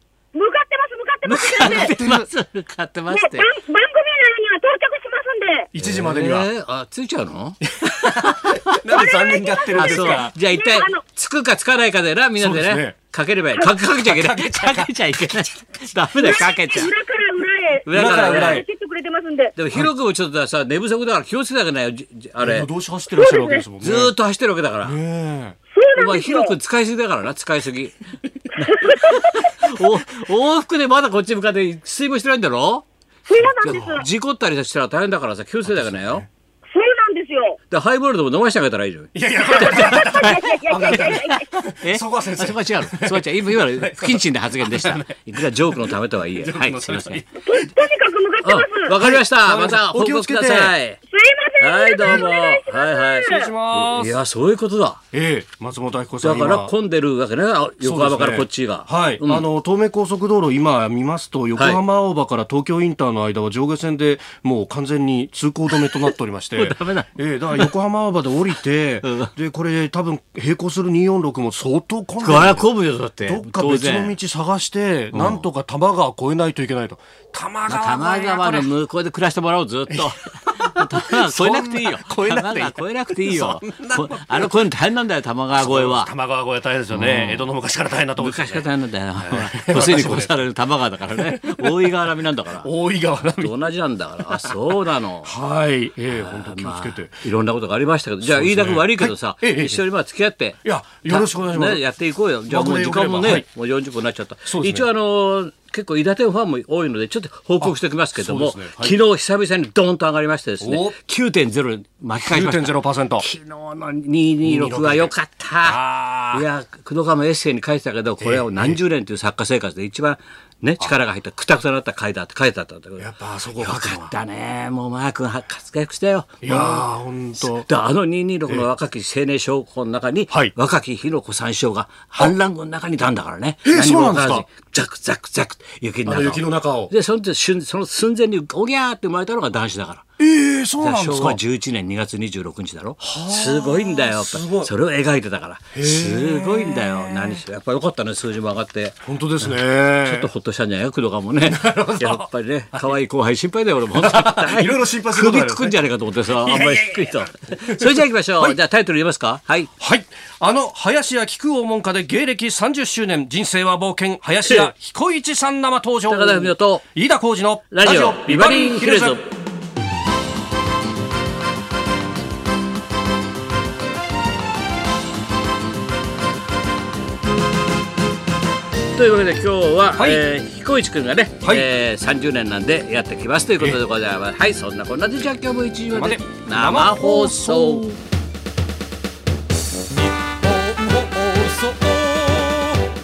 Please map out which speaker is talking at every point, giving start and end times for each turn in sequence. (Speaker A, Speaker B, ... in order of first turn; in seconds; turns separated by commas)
Speaker A: 0.3-2.0, Speaker B: 1.2-3.5, Speaker C: 1.6-2.3, Speaker A: 3.1-5.7, Speaker C: 5.7-6.5, Speaker B: 5.8-8.8, Speaker C: 7.7-10.3, Speaker A: 8.9-11.0, Speaker B: 9.8-17.0, Speaker C: 12.4-13.0, Speaker A: 13.5-13.8, Speaker C: 13.9-14.9, Speaker A: 16.1-19.6, Speaker B: 17.9-18.6, Speaker C: 17.9-18.7, Speaker B: 19.6-22.7, Speaker C: 22.4-24.1, Speaker A: 23.1-23.6, Speaker B: 23.8-25.0, Speaker C: 24.8-25.6, Speaker A: 25.7-26.6, Speaker B: 26.0-28.0, Speaker B: 28.5-32.9, Speaker A: 28.6-29.3, Speaker A: 33.3-34.1, Speaker C: 33.4-34.1, Speaker B: 33.6-36.3, Speaker C: 35.7-36.3, Speaker A: 36.7-37.6, Speaker B: 37.7-47.2, Speaker C: 39.1-47.7, Speaker A: 39.5-41.5, Speaker A: 47.4-49.0, Speaker B: 48.4-51.0, Speaker C: 49.0-50.8, Speaker A: 51.1-53.5, Speaker B: 51.6-55.0, Speaker C: 52.0-52.3, Speaker C: 53.2-54.2, Speaker C: 55.1-56.7, Speaker B: 56.2-59.5, Speaker C: 57.8-72.7, Speaker B: 65.7-67.7, Speaker B: 69.0-69.3, Speaker B: 72.2-74.2, Speaker C: 73.2-78.7, Speaker B: 75.1-75.5, Speaker B: 77.7-86.1, Speaker C: 79.9-84.6, Speaker C: 85.5-88.7, Speaker B: 86.9-87.5, Speaker B: 88.2-92.7, Speaker C: 89.2-90.3, Speaker C: 91.1-92.0, Speaker C: 92.6-93.7, Speaker B: 93.4-95.3, Speaker C: 94.2-97.2, Speaker B: 96.1-115.8, Speaker C: 98.2-99.8, Speaker C: 100.6-101.8, Speaker C: 102.5-103.5, Speaker C: 104.5-104.9, Speaker C: 107.6-109.0, Speaker C: 110.6-111.0, Speaker C: 112.3-113.2, Speaker C: 114.4-115.1, Speaker C: 115.6-116.5, Speaker B: 116.3-140.0, Speaker C: 118.2-118.8, Speaker C: 123.0-124.2, Speaker C: 126.4-127.7, Speaker C: 133.7-134.5, Speaker C: 136.1-136.9, Speaker C: 140.2-141.4, Speaker B: 140.8-159.7, Speaker C: 143.0-144.7, Speaker C: 145.7-147.4, Speaker C: 149.0-150.3, Speaker C: 151.4-152.9, Speaker C: 153.9-158.6, Speaker C: 159.8-169.2, Speaker B: 164.4-164.7, Speaker B: 166.1-166.8, Speaker B: 167.7-169.3, Speaker B: 178.9-187.9, Speaker C: 179.9-180.2, Speaker C: 181.4-181.7, Speaker C: 185.9-188.0, Speaker C: 190.7-192.5